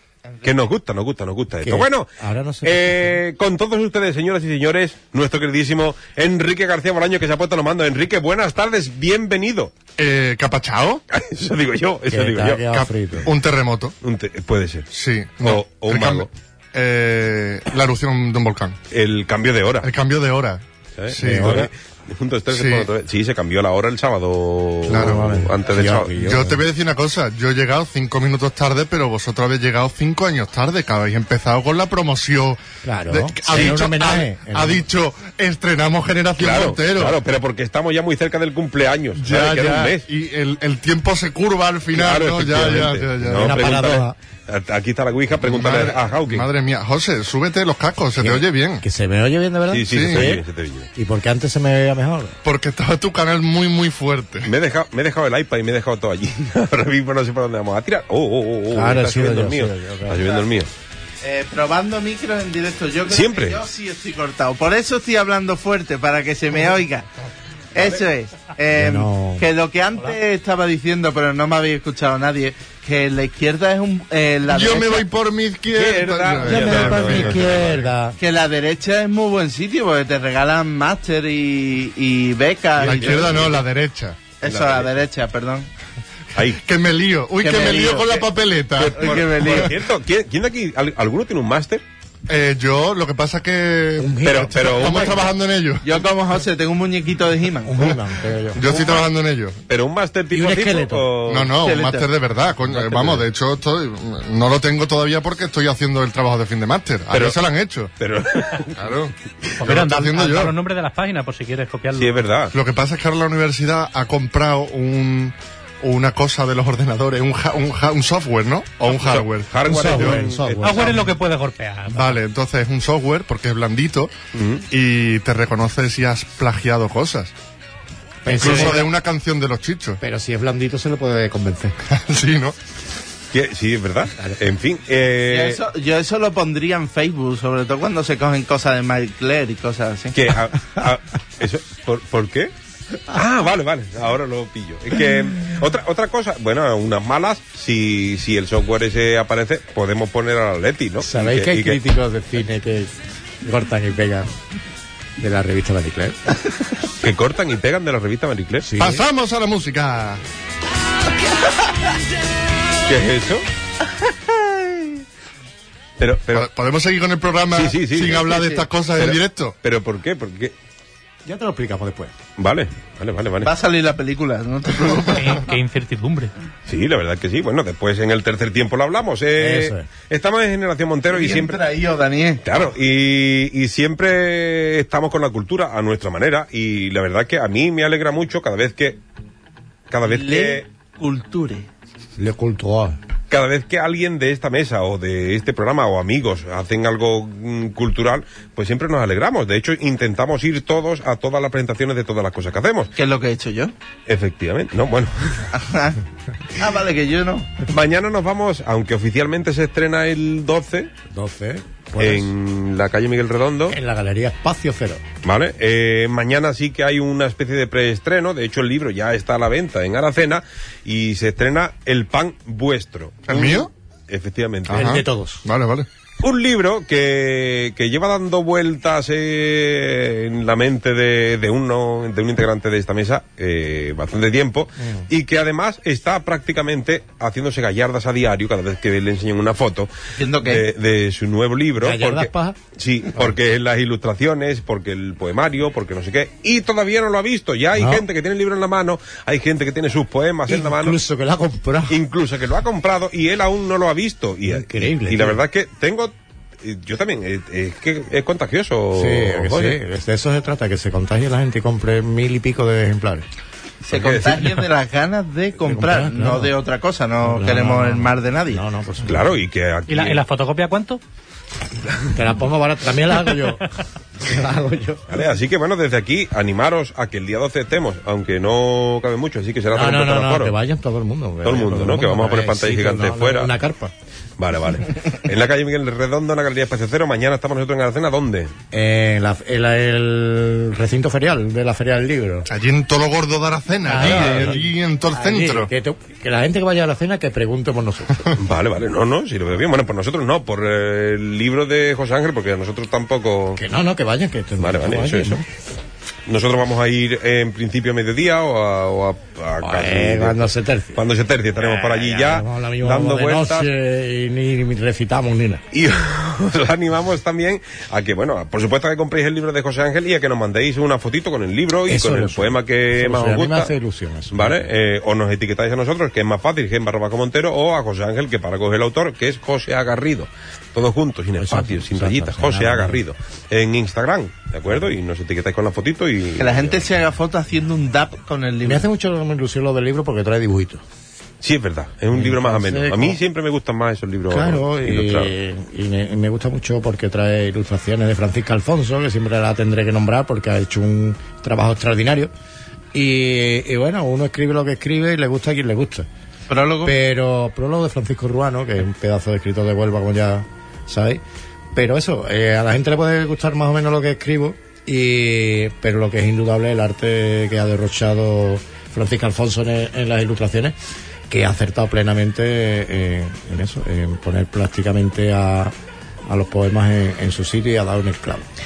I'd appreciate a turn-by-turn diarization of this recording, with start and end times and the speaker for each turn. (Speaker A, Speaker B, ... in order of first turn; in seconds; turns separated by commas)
Speaker A: 0.3-0.5, Speaker B: 0.4-2.1, Speaker C: 1.6-3.2, Speaker B: 2.6-9.7, Speaker D: 10.0-11.0, Speaker B: 11.1-12.9, Speaker C: 12.1-13.3, Speaker D: 13.2-13.9, Speaker B: 14.0-14.9, Speaker D: 14.9-18.8, Speaker B: 15.4-16.3, Speaker B: 18.9-19.9, Speaker D: 19.8-21.7, Speaker B: 20.9-26.1, Speaker C: 21.2-21.7, Speaker D: 22.5-22.9, Speaker D: 24.9-25.5, Speaker C: 24.9-26.6, Speaker D: 26.1-37.2, Speaker C: 32.8-34.8, Speaker B: 33.5-33.8, Speaker B: 36.4-40.0, Speaker D: 39.1-43.6, Speaker B: 41.9-46.5, Speaker C: 43.3-44.1, Speaker D: 45.4-48.8, Speaker C: 48.2-50.4, Speaker B: 49.7-50.9, Speaker D: 49.9-50.3, Speaker C: 50.9-52.3, Speaker D: 52.4-54.5, Speaker B: 54.4-60.7, Speaker C: 58.7-60.2, Speaker A: 61.2-67.0, Speaker B: 63.1-63.6, Speaker A: 67.7-75.1, Speaker C: 68.7-69.5, Speaker D: 74.5-77.8, Speaker B: 75.7-77.8, Speaker C: 76.4-78.2, Speaker A: 78.2-83.6, Speaker D: 82.8-84.2, Speaker B: 82.8-83.5, Speaker A: 84.4-85.7, Speaker B: 84.4-84.9, Speaker B: 86.3-86.6, Speaker D: 86.6-89.7, Speaker A: 87.4-88.3, Speaker A: 88.8-89.7, Speaker B: 88.8-91.8, Speaker D: 92.3-96.0, Speaker C: 94.0-95.1, Speaker B: 94.2-95.2, Speaker A: 95.8-97.9, Speaker C: 97.6-98.7, Speaker D: 98.5-99.6, Speaker B: 98.7-99.0, Speaker B: 99.7-101.6, Speaker C: 100.3-101.1, Speaker D: 101.2-107.9, Speaker A: 101.5-102.1, Speaker B: 102.7-103.2, Speaker B: 107.1-107.4, Speaker B: 108.0-109.0, Speaker D: 108.8-110.6, Speaker E: 109.6-112.3, Speaker B: 111.9-112.5, Speaker D: 112.5-120.3, Speaker B: 118.9-121.1, Speaker C: 119.6-120.9, Speaker E: 120.6-122.2, Speaker D: 121.9-124.1, Speaker B: 124.3-124.6, Speaker D: 124.7-127.3, Speaker C: 128.2-128.8, Speaker D: 128.2-130.0, Speaker B: 128.4-128.7, Speaker C: 130.0-131.8, Speaker D: 131.9-132.6, Speaker B: 133.3-135.6, Speaker A: 135.3-140.2, Speaker B: 140.1-142.5, Speaker B: 143.1-151.8, Speaker C: 151.0-154.3, Speaker C: 155.2-156.3, Speaker B: 157.0-158.7, Speaker C: 158.6-159.0, Speaker D: 158.8-160.2, Speaker B: 162.8-163.4, Speaker A: 164.1-164.9, Speaker B: 166.0-166.5, Speaker D: 166.3-169.6, Speaker B: 167.5-168.4, Speaker A: 168.3-168.6, Speaker B: 169.0-170.5, Speaker C: 171.2-172.1, Speaker B: 172.4-173.5, Speaker A: 173.4-175.5, Speaker E: 175.1-176.3, Speaker B: 176.7-181.6, Speaker C: 179.4-179.8, Speaker A: 181.1-182.4, Speaker B: 182.4-189.0, Speaker B: 189.9-190.7, Speaker A: 190.0-191.7, Speaker C: 192.2-193.0, Speaker B: 193.3-202.9, Speaker A: 202.9-203.7, Speaker B: 204.1-205.5, Speaker A: 205.5-206.0, Speaker A: 206.6-207.5, Speaker B: 207.7-210.9, Speaker C: 211.1-212.3, Speaker B: 212.0-213.8, Speaker C: 213.7-215.0, Speaker B: 215.2-224.9, Speaker D: 223.3-223.7, Speaker D: 224.7-225.9, Speaker C: 224.7-225.4, Speaker B: 226.2-251.0, Speaker C: 234.8-235.1, Speaker A: 240.2-240.7, Speaker C: 241.8-242.6, Speaker C: 247.8-248.0, Speaker C: 250.5-252.0, Speaker B: 251.9-259.8, Speaker C: 254.5-255.4, Speaker C: 258.9-263.2, Speaker A: 263.8-268.6, Speaker B: 263.9-264.6, Speaker C: 265.6-266.5, Speaker C: 267.2-269.3, Speaker B: 269.1-270.2, Speaker E: 269.9-271.0, Speaker C: 272.1-273.7, Speaker C: 274.2-275.0, Speaker B: 275.1-280.5, Speaker C: 279.7-283.9, Speaker B: 281.4-283.5, Speaker B: 284.4-288.5, Speaker C: 288.7-292.5, Speaker D: 292.4-295.7, Speaker C: 293.8-298.3, Speaker B: 294.0-294.4, Speaker B: 298.4-303.6, Speaker C: 303.6-305.4, Speaker B: 304.6-305.4, Speaker B: 306.3-313.7, Speaker C: 309.6-311.0, Speaker C: 311.6-315.6, Speaker B: 315.7-323.7, Speaker C: 321.9-324.7, Speaker B: 324.3-336.9, Speaker C: 331.4-333.0, Speaker A: 336.4-338.9, Speaker C: 338.6-340.8, Speaker B: 341.4-345.3, Speaker C: 342.1-343.2, Speaker C: 344.3-352.3, Speaker C: 352.9-356.1, Speaker A: 356.5-356.9, Speaker C: 356.8-361.2, Speaker C: 361.7-370.7, Speaker C: 371.3-375.7, Speaker C: 376.2-378.5